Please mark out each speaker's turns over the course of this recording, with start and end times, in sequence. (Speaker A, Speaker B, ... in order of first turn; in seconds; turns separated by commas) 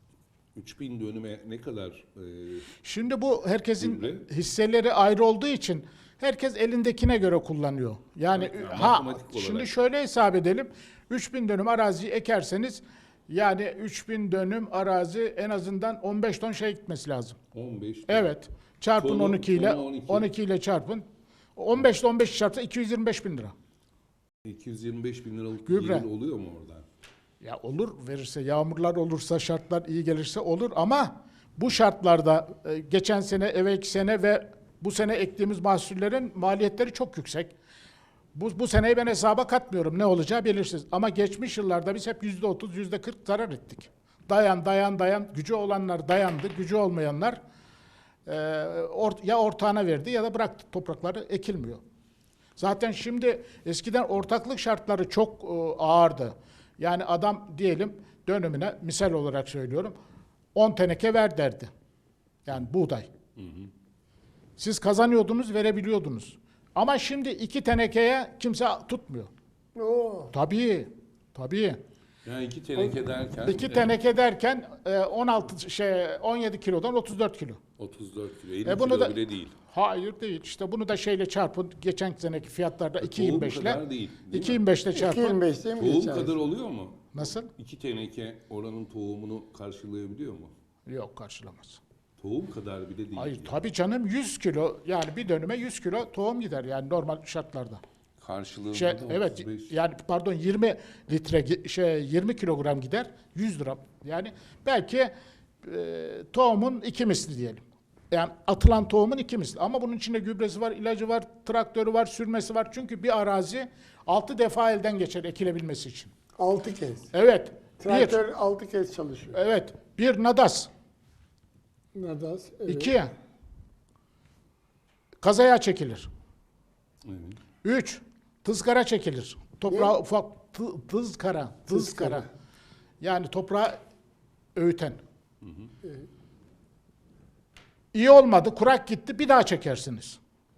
Speaker A: 0.6-2.7, Speaker B: 2.8-17.4, Speaker A: 3.8-4.2, Speaker A: 8.3-9.7, Speaker A: 17.5-18.3, Speaker B: 18.1-21.0, Speaker A: 19.0-20.3, Speaker B: 21.6-23.5, Speaker A: 24.5-26.8, Speaker B: 25.7-26.1, Speaker B: 27.4-37.5, Speaker B: 38.4-47.4, Speaker B: 48.3-51.8, Speaker B: 52.6-59.9, Speaker B: 60.5-61.7, Speaker B: 62.5-63.1, Speaker A: 63.4-63.7, Speaker B: 64.6-69.3, Speaker C: 69.8-70.3, Speaker B: 70.3-71.8, Speaker A: 72.2-73.9, Speaker B: 73.5-77.6, Speaker A: 77.8-79.5, Speaker B: 78.7-85.4, Speaker A: 83.0-84.6, Speaker C: 84.9-86.3, Speaker A: 85.8-90.5, Speaker B: 87.1-87.5, Speaker B: 90.9-91.8, Speaker A: 92.2-93.5, Speaker B: 93.2-97.8, Speaker A: 98.2-99.7, Speaker B: 98.7-116.1, Speaker C: 116.4-117.1, Speaker B: 117.1-118.2, Speaker C: 117.8-119.4, Speaker B: 119.3-120.7, Speaker C: 121.9-122.9, Speaker B: 122.7-123.1, Speaker B: 125.2-126.1, Speaker A: 127.1-127.4, Speaker B: 127.6-132.3, Speaker C: 131.7-132.2, Speaker B: 133.0-133.8, Speaker B: 134.6-135.0, Speaker B: 137.9-140.2